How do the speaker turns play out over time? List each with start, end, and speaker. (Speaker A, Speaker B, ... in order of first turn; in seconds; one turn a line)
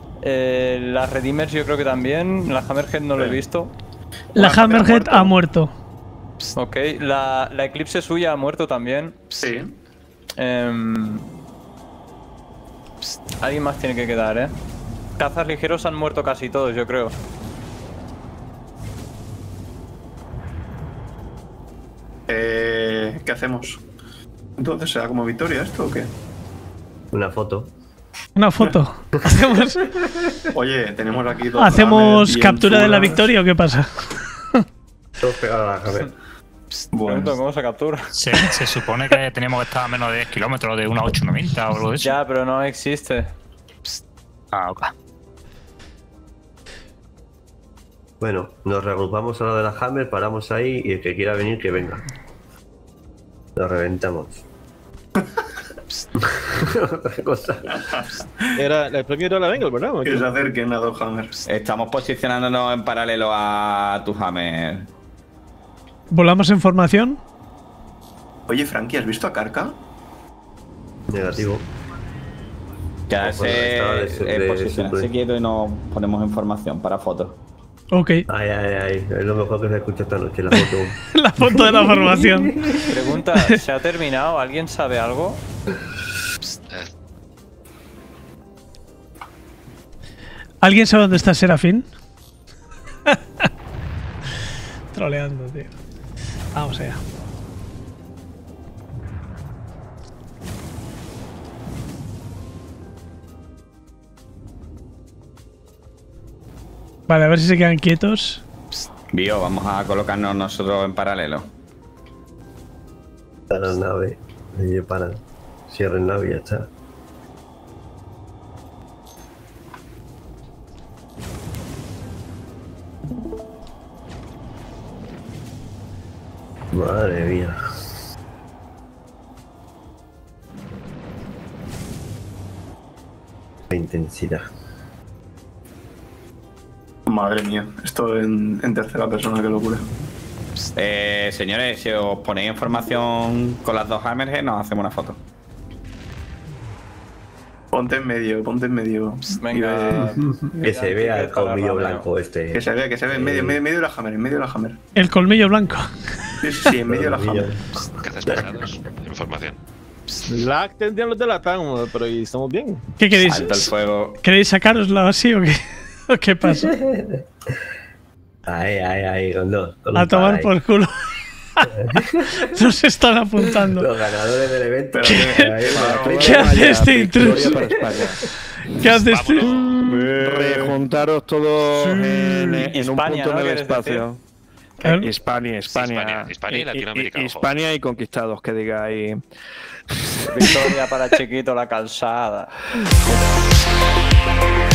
Speaker A: 0.2-3.7
Speaker B: 4.3-5.3
Speaker C: 4.4-5.7
Speaker A: 6.5-9.5
Speaker B: 9.4-9.7
Speaker A: 10.4-11.3
Speaker A: 13.0-14.6
Speaker A: 15.2-17.1
Speaker B: 22.3-23.8
Speaker B: 24.6-26.1
Speaker D: 27.1-27.7
Speaker C: 28.4-29.8
Speaker B: 30.5-33.3
Speaker C: 31.6-34.0
Speaker D: 35.2-36.1
Speaker B: 36.9-37.4
Speaker A: 37.0-38.1
Speaker E: 38.1-42.1
Speaker A: 42.0-43.3
Speaker E: 44.5-44.9
Speaker D: 48.2-52.0
Speaker D: 53.6-54.4
Speaker D: 56.2-57.8
Speaker B: 57.7-58.5
Speaker F: 58.6-60.3
Speaker B: 60.0-61.3
Speaker G: 61.5-64.9
Speaker C: 66.1-67.2
Speaker B: 68.5-69.8
Speaker D: 71.1-71.6
Speaker G: 73.1-77.4
Speaker D: 73.2-75.1
Speaker C: 77.9-78.2
Speaker D: 78.3-82.9
Speaker C: 80.5-82.6
Speaker A: 82.9-85.4
Speaker C: 90.6-91.9
Speaker C: 94.9-95.7
Speaker C: 96.5-97.0
Speaker C: 107.1-108.4
Speaker G: 109.1-111.5
Speaker D: 113.5-116.7
Speaker D: 126.7-127.6
Speaker D: 133.7-134.5
Speaker B: 137.1-139.8
Speaker G: 140.8-145.2
Speaker B: 147.7-150.2
Speaker A: 149.3-152.1
Speaker D: 149.9-153.6
Speaker B: 152.5-154.8
Speaker C: 155.0-155.9
Speaker B: 156.4-157.5
Speaker D: 156.8-158.5
Speaker H: 158.0-159.6
Speaker F: 160.3-162.8
Speaker C: 163.0-166.7
Speaker G: 163.1-164.2
Speaker D: 166.4-167.3
Speaker D: 168.5-170.5
Speaker C: 169.9-170.9
Speaker C: 171.6-173.9
Speaker D: 171.8-172.5
Speaker D: 173.7-176.7
Speaker B: 174.9-176.4
Speaker C: 175.1-175.6
Speaker I: 175.7-178.2
Speaker C: 176.2-177.6
Speaker D: 177.4-178.1
Speaker C: 178.8-179.5
Speaker H: 179.0-179.9
Speaker I: 179.5-184.2
Speaker A: 182.6-184.1
Speaker C: 184.8-185.1
Speaker I: 185.0-189.2
Speaker H: 185.6-187.5
Speaker A: 190.3-192.5
Speaker I: 190.4-190.8